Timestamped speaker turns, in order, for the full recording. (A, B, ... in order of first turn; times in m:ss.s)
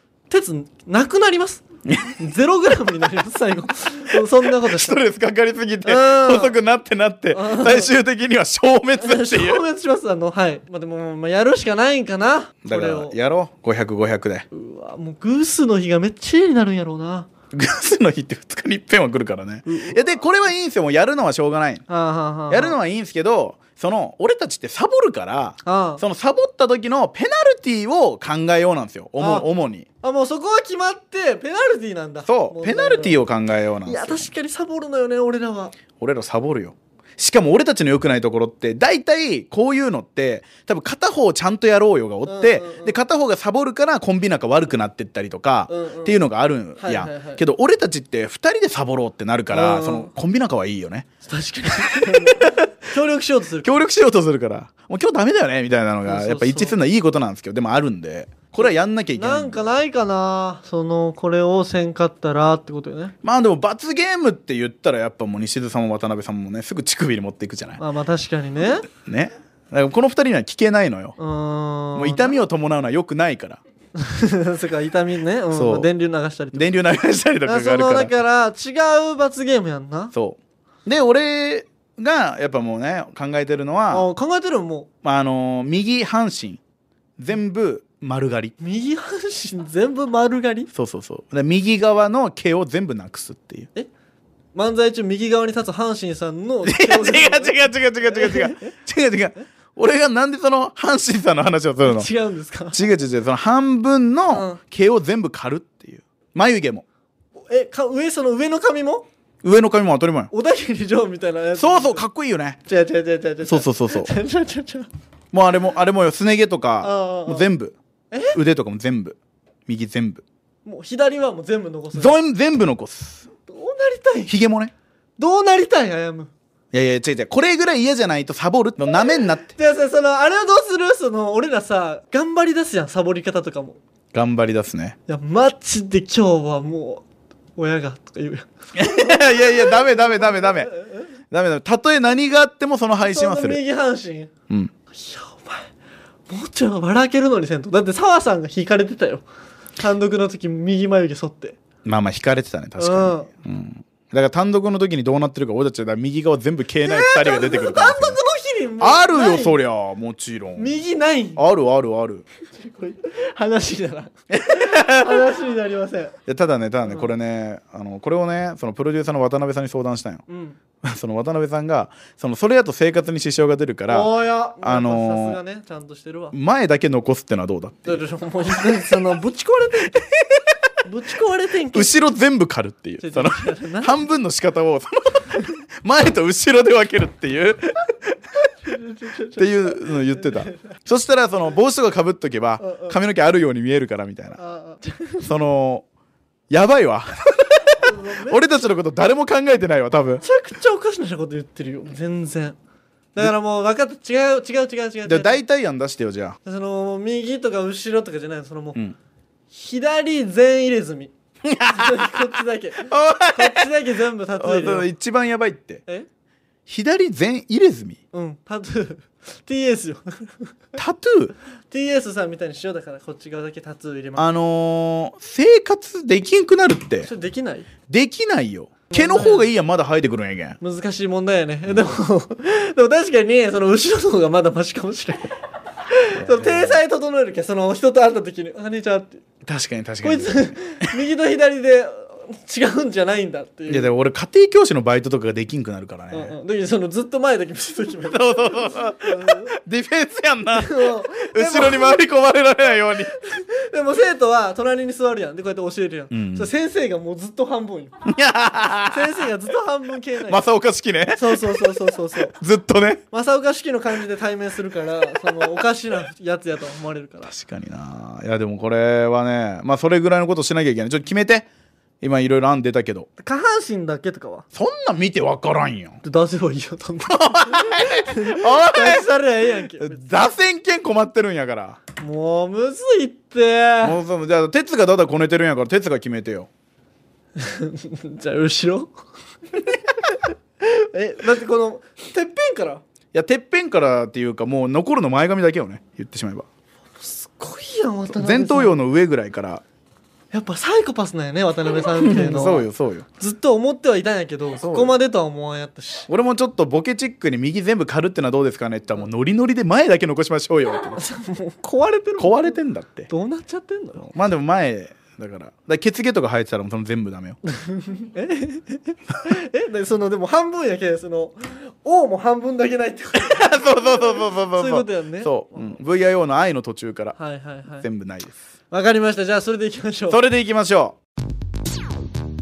0:00.3-0:01.6 A
0:01.9-0:02.2 B
0:02.2-0:05.0 A
0:04.1-0:09.6 B
0:05.8-0:06.6 A
0:07.3-0:07.9 A
0:09.0-0:13.2 A
0:12.6-0:14.5 B
0:14.5-0:17.3 A
0:17.5-0:21.8 B
0:19.7-0:20.0 A
0:21.9-0:22.8 A
0:22.5-0:29.9 B
0:25.6-0:26.0 A
0:29.2-0:29.5 A
0:30.0-0:33.2 A
0:32.3-0:34.3 B
0:33.8-0:35.8 A
0:36.0-0:51.1 B
0:42.3-0:43.0 A
0:45.7-0:46.2 A
0:46.8-0:47.4 A
0:49.5-0:50.1 A
0:51.3-0:53.7 A
0:51.9-0:52.6 B
0:53.6-0:59.6 B
0:56.1-0:56.8 A
0:58.6-1:03.2 A
1:03.2-1:07.8 B
1:07.8-1:08.9 A
1:08.9-1:11.2 B
1:11.2-1:12.4 A
1:12.0-1:13.6 B
1:14.0-1:16.8 A
1:15.5-1:15.9 B
1:16.5-1:18.1 B
1:17.4-1:20.1 A
1:20.1-1:24.1 B
1:23.9-1:24.9 A
1:25.0-1:26.6 B
1:27.2-1:28.5 B
1:28.6-1:30.7 A
1:30.7-1:33.7 B
1:34.6-1:38.8 A
1:36.6-1:42.1 B
1:41.8-1:42.8 A
1:42.7-1:46.8 B
1:44.3-1:44.6 A
1:47.4-1:49.1 A
1:49.4-1:50.3 B
1:50.3-1:52.0 A
1:51.6-1:52.6 B
1:52.7-1:54.9 A
1:53.4-1:54.1 B
1:55.3-1:57.8 B
1:56.8-1:57.5 A
1:58.1-1:58.4 A
1:58.3-2:00.2 B
2:00.6-2:02.2 A
2:02.0-2:03.3 B
2:03.4-2:04.3 A
2:04.3-2:04.7 B
2:05.2-2:06.3 A
2:06.7-2:09.6 B
2:09.6-2:13.8 A
2:14.1-2:15.0 B
2:15.1-2:17.0 A
2:17.6-2:21.1 A
2:18.8-2:20.7 B
2:21.3-2:23.6 B
2:23.0-2:24.3 A
2:24.9-2:25.7 A
2:26.3-2:29.2 A
2:29.8-2:31.6 A
2:31.8-2:38.2 B
2:32.8-2:33.3 A
2:36.8-2:39.6 A
2:38.8-2:40.8 B
2:40.6-2:41.4 A
2:41.4-2:42.2 B
2:42.5-2:46.2 A
2:44.3-2:45.3 B
2:46.3-2:50.2 B
2:46.9-2:47.1 A
2:50.3-2:50.6 A
2:50.8-2:54.1 B
2:53.9-2:56.4 A
2:54.6-2:55.4 B
2:56.3-2:58.0 B
2:57.8-3:00.1 A
3:00.0-3:00.5 B
3:00.8-3:01.9 A
3:01.7-3:08.2 B
3:03.0-3:04.0 A
3:08.6-3:10.6 A
3:09.4-3:14.4 B
3:12.6-3:13.0 A
3:14.4-3:15.3 A
3:15.2-3:15.8 B
3:16.5-3:20.2 B
3:17.8-3:18.4 A
3:20.2-3:22.6 A
3:23.2-3:25.4 A
3:25.1-3:26.4 B
3:26.4-3:28.8 A
3:29.5-3:34.9 A
3:31.4-3:32.2 B
3:32.8-3:33.7 B
3:34.4-3:35.8 B
3:36.7-3:38.0 B
3:38.1-3:40.5 A
3:40.8-3:41.4 B
3:41.7-3:44.3 A
3:44.2-3:47.1 B
3:47.0-3:47.7 A
3:47.9-3:50.6 B
3:48.9-3:49.5 A
3:50.6-3:55.4 A
3:55.9-3:59.2 A
3:56.2-3:56.8 B
3:59.4-4:01.0 B
4:00.0-4:03.9 A
4:03.7-4:06.4 B
4:06.1-4:09.5 A
4:08.1-4:13.1 B
4:10.6-4:12.0 A
4:13.1-4:18.0 A
4:16.1-4:16.5 B
4:18.0-4:19.1 B
4:18.9-4:20.4 A
4:20.3-4:21.8 B
4:21.2-4:22.4 A
4:22.3-4:23.0 B
4:23.1-4:27.3 A
4:27.3-4:31.5 B
4:32.0-4:33.1 B
4:33.2-4:34.5 A
4:34.5-4:36.0 B
4:36.0-4:40.0 A
4:37.1-4:39.1 B
4:39.8-4:41.8 B
4:42.0-4:44.0 A
4:43.8-4:46.5 B
4:47.4-4:49.0 A
4:50.0-4:52.8 A
4:53.1-4:56.5 B
4:57.0-4:58.8 A
4:58.1-4:59.6 B
5:00.3-5:02.7 A
5:02.0-5:03.1 B
5:03.2-5:06.1 A
5:04.6-5:05.0 B
5:06.1-5:11.0 B
5:11.0-5:14.1 A
5:12.2-5:13.1 B
5:14.1-5:17.4 B
5:17.5-5:25.8 A
5:23.2-5:27.2 B
5:27.2-5:27.9 A
5:27.8-5:28.4 B
5:28.7-5:30.2 A
5:30.1-5:31.0 B